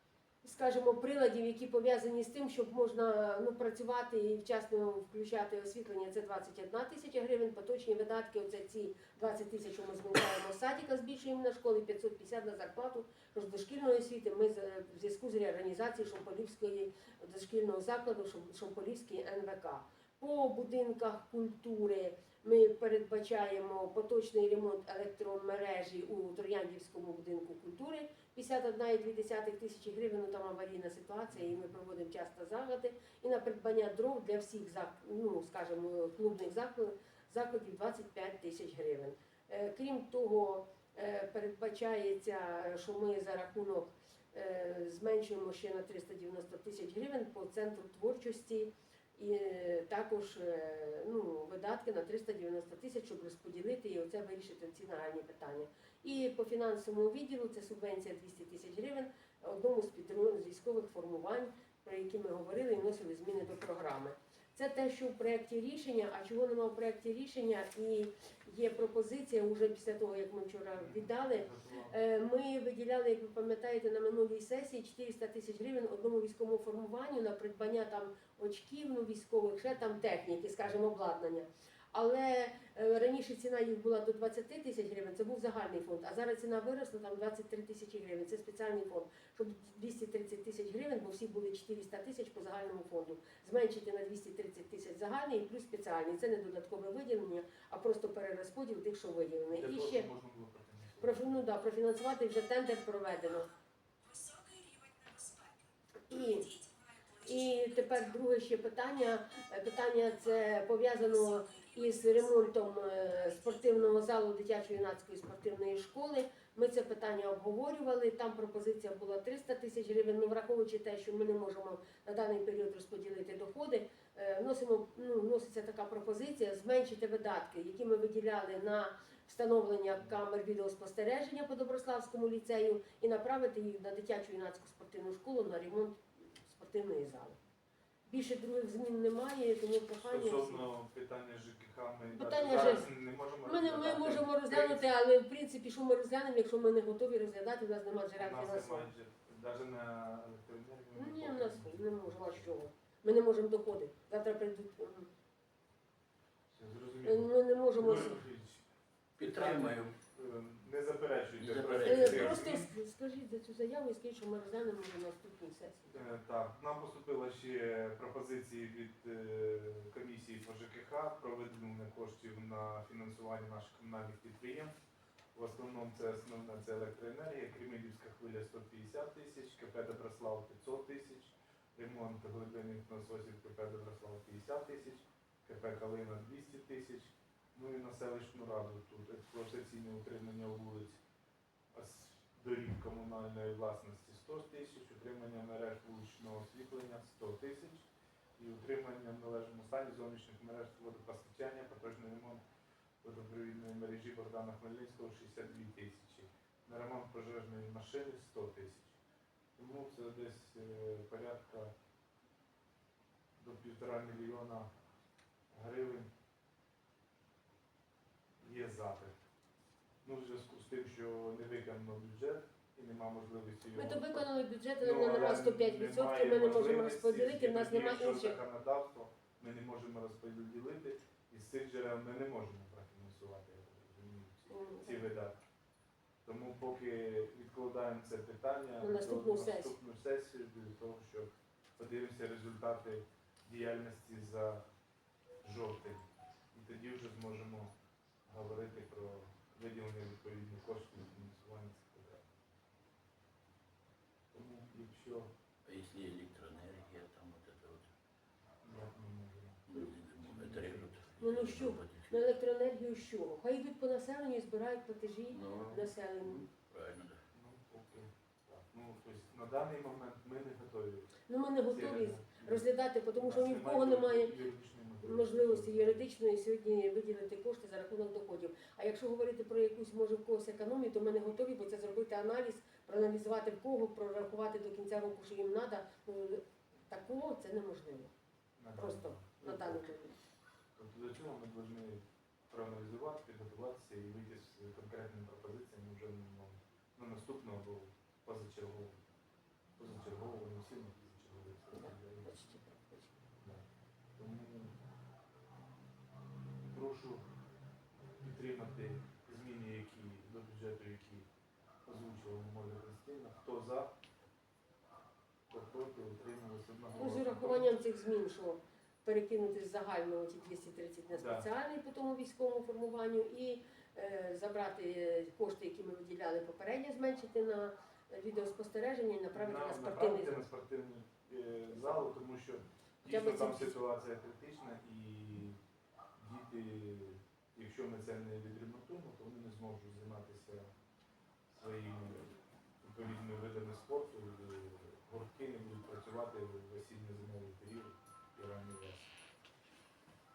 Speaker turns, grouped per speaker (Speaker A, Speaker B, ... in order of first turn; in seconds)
Speaker A: 0.4-100.1, 101.0-103.5, 106.1-106.6, 107.2-137.4, 138.1-140.6, 142.1-142.9, 143.4-148.9, 150.9-155.1, 157.0-158.2, 161.8-166.1, 223.7-228.4, 234.5-235.1, 238.8-239.8, 261.2-266.5, 271.3-274.3, 275.0-288.1, 288.7-290.2, 301.7-303.2, 316.9-330.4, 333.0-333.8
Speaker B: 31.3-31.6, 70.7-72.0, 99.5-101.4, 140.0-144.9, 148.2-152.6, 156.5-158.6, 159.2-162.7, 165.9-174.7, 175.3-191.0, 191.7-202.4, 203.0-209.0, 209.6-211.7, 213.4-214.7, 215.5-216.1, 218.4-219.1, 220.0-224.3, 224.8-235.4, 236.2-244.6, 245.4-247.7, 248.2-252.2, 254.3-255.3, 258.6-259.6, 260.2-260.9, 267.3-271.1, 271.7-276.1, 288.6-289.9, 290.8-299.0, 299.8-302.4, 303.4-303.6, 304.2-304.8, 306.7-307.2, 308.2-311.2, 311.8-313.9, 315.5-317.7, 321.1-321.5, 329.3-335.6, 336.1-340.7, 341.5-349.1
Speaker C: 159.2-159.9, 161.4-162.5, 255.6-257.9, 259.7-262.1, 265.3-267.2